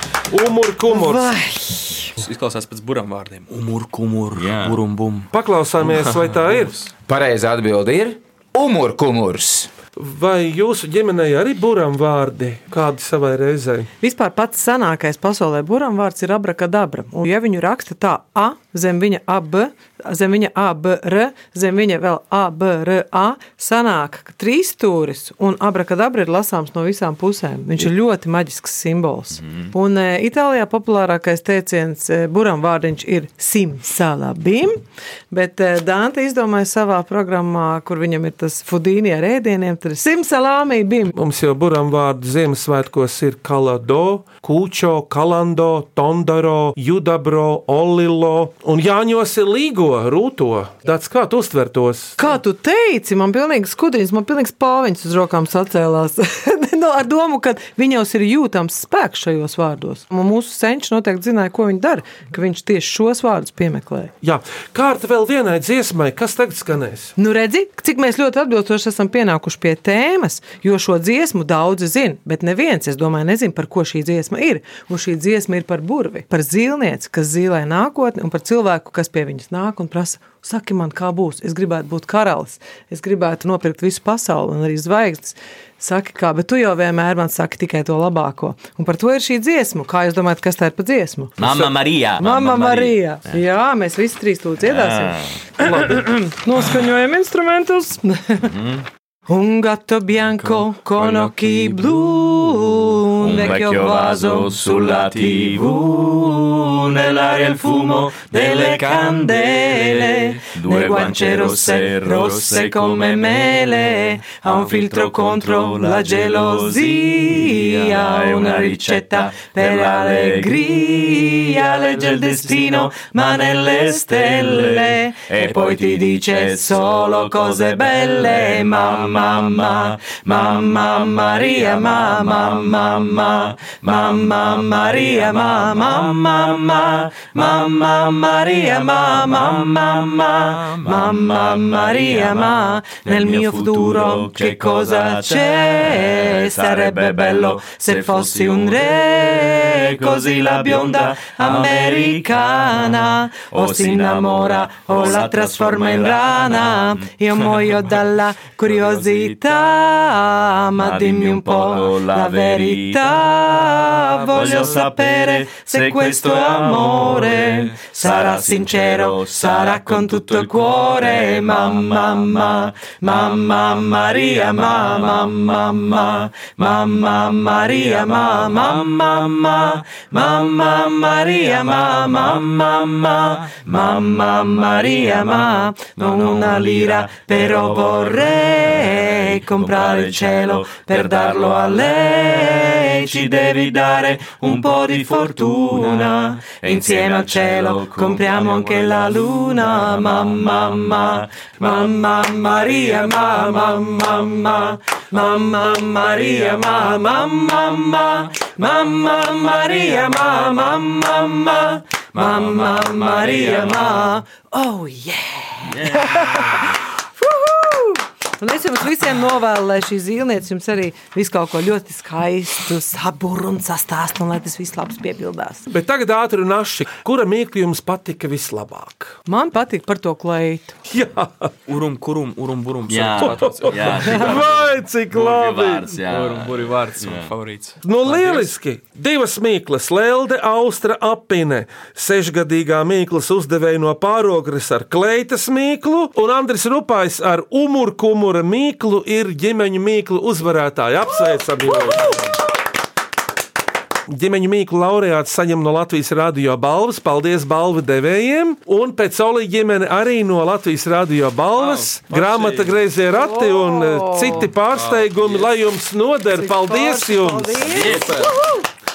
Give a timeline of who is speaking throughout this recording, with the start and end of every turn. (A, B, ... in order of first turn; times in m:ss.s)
0:00.3-0:01.3 A
0:00.9-0:02.2 B
0:02.2-0:05.3 C
0:04.3-0:04.8 D
0:05.3-0:06.8 A
0:05.9-0:06.8 C
0:07.1-0:09.7 E
0:10.0-0:13.9 A
0:14.0-0:41.2 B
0:29.4-0:29.7 D
0:41.1-0:52.2 A
0:52.2-1:04.1 B
1:04.2-1:07.1 A
1:07.2-1:31.6 B
1:31.4-1:33.4 D
1:32.2-1:38.5 B
1:34.6-1:35.4 D
1:38.4-1:38.8 D
1:39.3-1:46.5 B
1:40.4-1:42.0 C
1:43.2-1:53.7 D
1:47.0-3:45.6 B
1:54.4-2:37.9 D
2:38.8-2:39.2 C
2:40.8-3:24.6 D
3:25.2-3:27.0 D
3:32.1-3:34.2 D
3:35.7-3:36.7 D
3:45.7-3:49.2 A
3:49.3-3:50.8 B
3:50.9-3:51.5 A
3:51.7-3:54.4 C
3:52.9-3:57.3 D
3:53.3-3:55.9 A
3:56.0-3:58.5 C
3:57.8-4:12.4 A
4:14.1-4:27.8 A
4:21.6-4:22.8 C
4:23.1-4:24.5 B
4:24.8-4:25.5 C
4:26.3-4:28.6 B
4:27.7-4:28.3 D
4:27.8-4:28.3 C